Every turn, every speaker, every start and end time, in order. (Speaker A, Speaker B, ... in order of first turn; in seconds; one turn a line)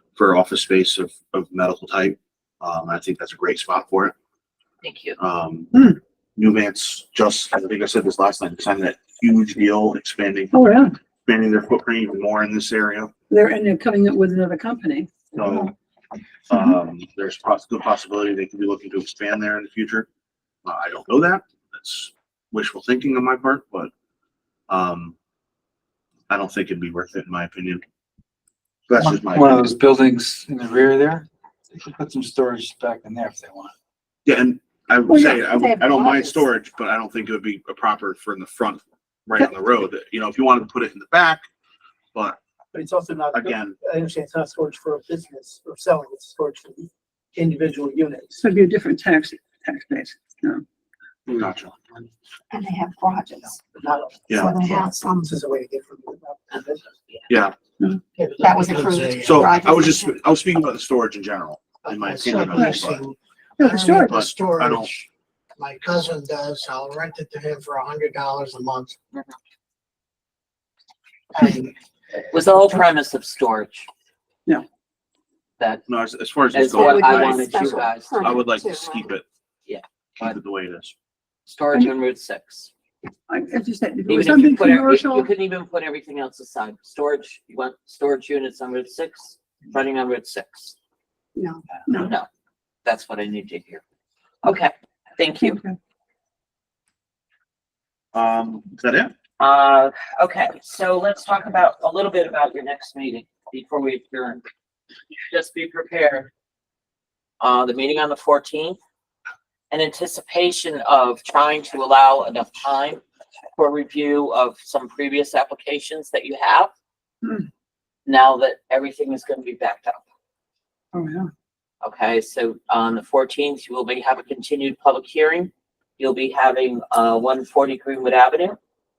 Speaker A: 0.1-4.1
Speaker B: 4.8-5.2
Speaker A: 5.2-5.7
Speaker C: 5.7-6.0
Speaker A: 6.4-10.6
Speaker C: 10.5-11.0
Speaker A: 11.2-13.1
Speaker C: 13.3-15.7
Speaker A: 15.3-15.7
Speaker A: 16.5-20.1
Speaker A: 20.6-23.9
Speaker A: 24.7-25.1
Speaker A: 26.3-27.8
Speaker A: 28.9-29.6
Speaker D: 28.9-33.7
Speaker A: 34.2-41.5
Speaker E: 35.1-36.4
Speaker F: 42.7-48.4
Speaker A: 43.3-43.8
Speaker C: 48.3-50.6
Speaker A: 51.3-52.0
Speaker E: 52.5-53.6
Speaker F: 53.7-57.2
Speaker A: 54.3-54.6
Speaker E: 54.3-55.3
Speaker A: 57.3-57.5
Speaker F: 58.1-59.0
Speaker E: 58.4-60.2
Speaker G: 59.0-59.8
Speaker A: 59.2-63.0
Speaker F: 61.8-62.4
Speaker G: 62.0-68.9
Speaker C: 62.5-62.8
Speaker C: 63.6-64.2
Speaker A: 63.9-64.9
Speaker G: 71.4-71.7
Speaker B: 72.3-73.9
Speaker B: 75.6-75.8
Speaker A: 75.9-77.5
Speaker B: 76.5-78.4
Speaker E: 76.7-79.1
Speaker A: 78.2-79.2
Speaker B: 79.7-80.3
Speaker A: 80.2-80.9
Speaker B: 81.5-82.7
Speaker C: 83.3-85.3
Speaker B: 84.1-90.8
Speaker E: 91.3-91.6
Speaker C: 91.9-92.1
Speaker B: 92.0-92.3
Speaker B: 92.8-93.8
Speaker B: 94.4-95.6
Speaker C: 95.4-95.8
Speaker A: 98.1-99.1
Speaker B: 99.4-104.4
Speaker B: 105.3-106.3
Speaker B: 107.4-108.8
Speaker B: 109.7-113.0
Speaker B: 113.5-116.7
Speaker B: 118.0-120.0
Speaker C: 120.9-121.3
Speaker B: 121.8-128.6